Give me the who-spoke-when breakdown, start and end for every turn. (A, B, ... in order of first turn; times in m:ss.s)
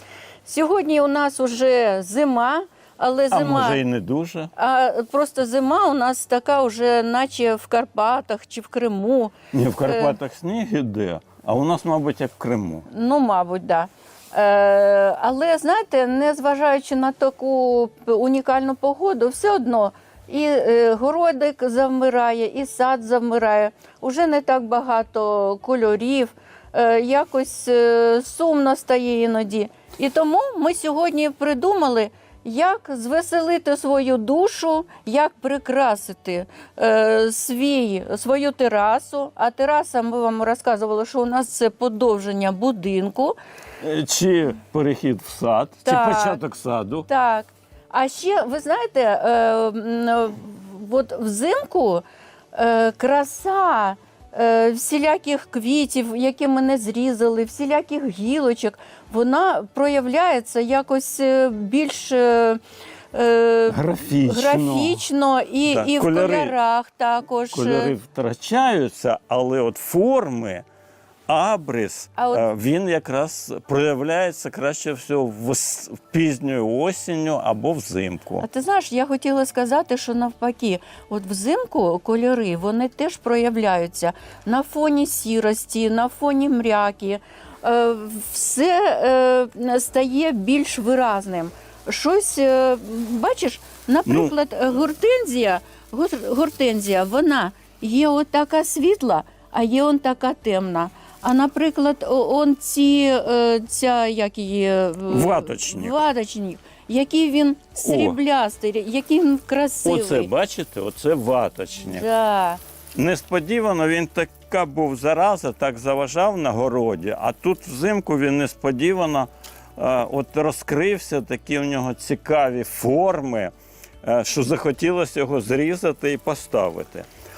0:00.4-0:03.8 A
0:03.3-0:04.5 B
0:04.6-0:10.2 A
0:09.5-0:12.9 B
0:12.9-0:43.4 A
0:43.8-0:47.1 B
0:45.8-0:46.4 A
0:47.1-1:02.6 A
1:03.1-1:07.9 A
1:03.7-1:05.0 B
1:05.7-1:06.5 B
1:07.5-1:10.6 B
1:11.3-1:18.5 B
1:12.2-1:12.4 A
1:18.4-1:50.3 A
1:34.1-1:34.3 B
1:45.1-1:46.0 B
1:47.8-1:48.2 B
1:49.8-1:52.1 B
1:51.9-1:52.6 A
1:53.0-2:07.1 B